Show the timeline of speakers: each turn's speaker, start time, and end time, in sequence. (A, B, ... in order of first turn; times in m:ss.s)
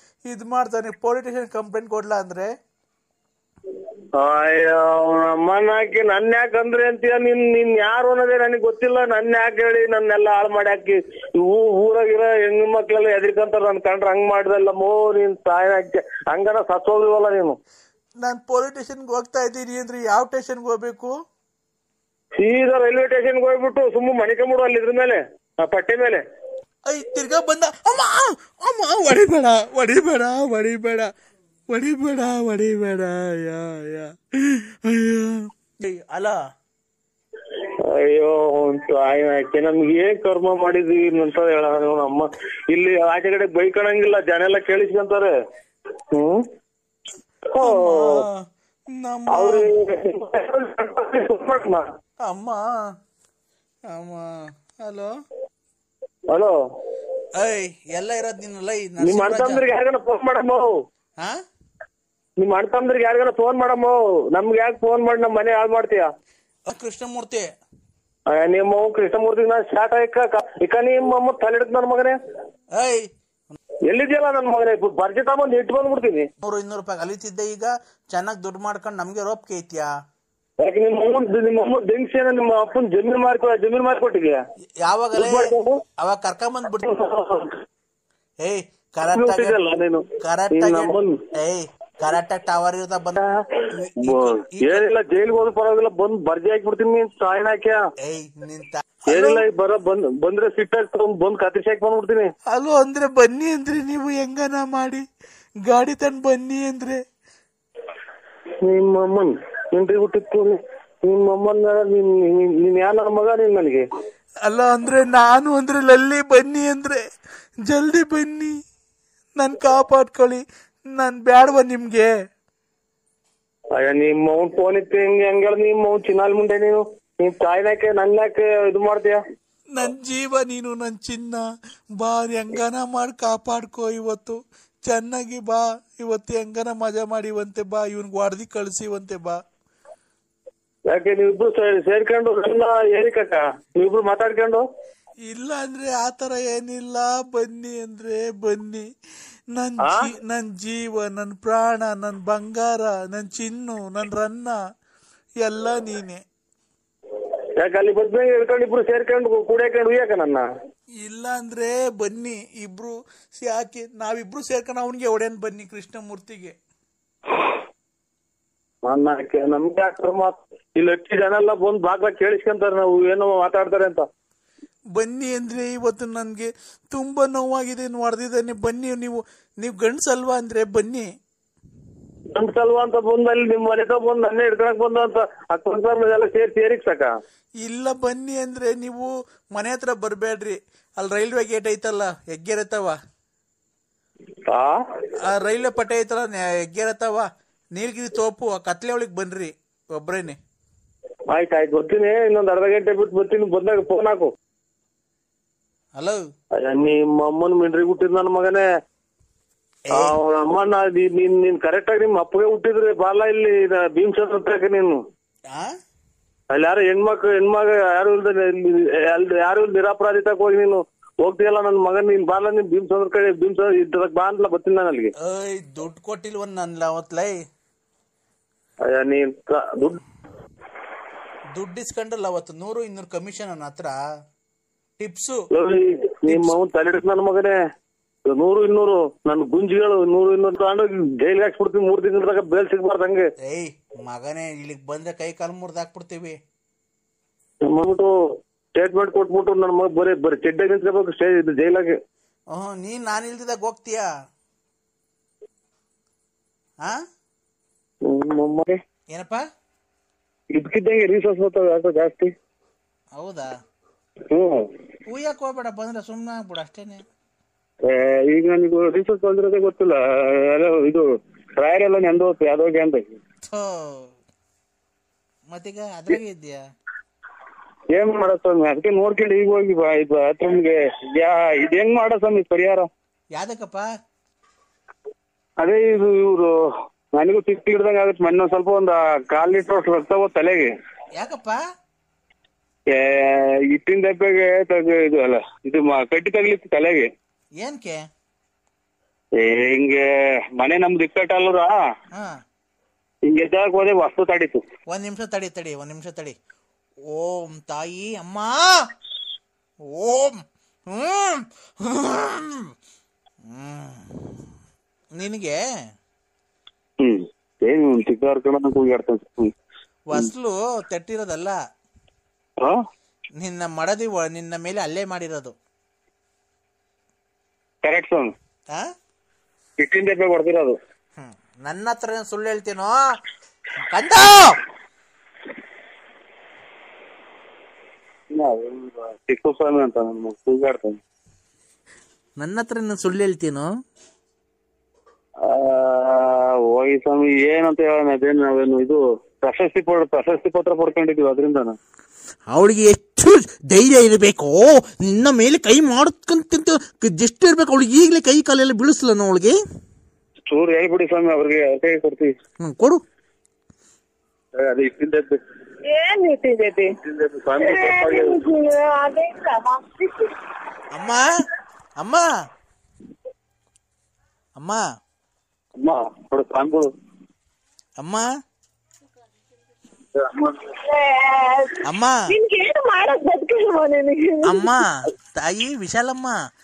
0:00.2-0:02.5 A
0:04.1-0:17.6 B
0:18.2-0:21.2 A
0:22.4-0:26.2 B
0:26.8-0:31.1 A
0:31.7-0:36.4 A
0:37.8-0:45.3 B
0:46.1-0:46.5 B
0:47.5-0:48.2 B
0:47.6-0:49.7 A
0:49.3-0:51.9 B
0:52.2-0:52.6 A
0:53.9-0:55.1 A
0:56.3-0:56.5 B
0:57.3-0:59.6 A
0:59.0-1:00.7 B
1:02.4-1:06.1 B
1:06.6-1:07.5 A
1:08.3-1:12.2 B
1:12.7-1:13.6 A
1:13.9-1:16.3 B
1:16.4-1:19.9 A
1:20.6-1:24.4 B
1:24.8-1:26.9 A
1:25.1-1:25.8 B
1:26.8-1:27.6 B
1:28.4-1:29.6 A
1:29.1-1:31.2 B
1:30.2-1:33.2 A
1:33.3-1:37.8 B
1:33.7-1:34.9 A
1:38.0-1:39.4 A
1:39.1-1:42.3 B
1:42.5-1:45.0 A
1:45.6-1:47.0 A
1:48.6-1:53.8 B
1:54.4-1:57.0 A
1:57.6-1:58.5 A
1:59.4-2:02.1 A
2:03.7-2:09.2 B
2:09.7-2:11.4 A
2:12.0-2:19.4 A
2:20.9-2:24.6 B
2:25.3-2:28.8 A
2:29.5-2:34.6 A
2:35.4-2:36.2 A
2:37.6-2:40.5 B
2:41.0-2:46.6 A
2:48.8-2:54.0 B
2:54.9-3:01.1 A
3:02.3-3:07.1 B
3:07.6-3:13.0 A
3:14.5-3:14.8 B
3:15.2-3:20.4 A
3:21.3-3:24.3 B
3:26.6-3:28.7 B
3:29.9-3:35.0 B
3:36.5-3:45.1 B
3:45.2-3:47.4 A
3:48.8-3:50.0 B
3:51.5-3:54.0 A
3:55.0-3:55.4 A
3:55.5-3:57.6 B
3:56.3-3:56.5 A
3:58.2-4:03.3 B
4:03.4-4:06.4 A
4:07.6-4:08.1 B
4:08.7-4:12.0 B
4:12.5-4:14.1 A
4:18.0-4:18.8 B
4:19.1-4:19.4 A
4:20.5-4:22.3 B
4:23.2-4:23.5 A
4:24.3-4:24.7 B
4:25.1-4:27.0 A
4:27.8-4:33.2 B
4:33.5-4:34.1 A
4:35.5-4:36.6 A
4:37.9-4:42.9 B
4:43.3-4:43.9 A
4:45.6-4:46.6 B
4:47.1-4:50.7 B
4:51.1-4:51.6 A
4:52.9-4:57.1 B
4:57.6-4:58.0 A
4:59.4-5:01.7 B
5:02.1-5:02.4 A
5:03.2-5:04.6 B
5:04.9-5:06.3 A
5:07.1-5:08.8 A
5:09.9-5:12.7 A
5:13.5-5:14.4 A
5:15.2-5:15.6 A
5:17.0-5:19.5 B
5:20.1-5:21.6 A
5:23.4-5:25.5 A
5:27.8-5:28.3 B
5:29.8-5:30.8 B
5:31.2-5:33.0 A
5:33.9-5:34.6 A
5:38.3-5:41.0 B
5:42.4-5:43.7 A
5:45.4-5:51.8 B
5:52.5-5:59.6 A
6:00.5-6:02.4 B
6:02.6-6:03.0 A
6:04.5-6:05.4 B
6:05.8-6:06.9 C
6:06.9-6:08.4 B
6:07.6-6:10.3 C
6:10.9-6:11.2 A
6:12.0-6:12.3 A
6:14.6-6:14.8 A
6:15.8-6:16.9 B
6:18.0-6:18.2 A
6:20.1-6:20.7 B
6:20.8-6:24.7 C
6:21.8-6:22.2 A
6:24.4-6:26.4 A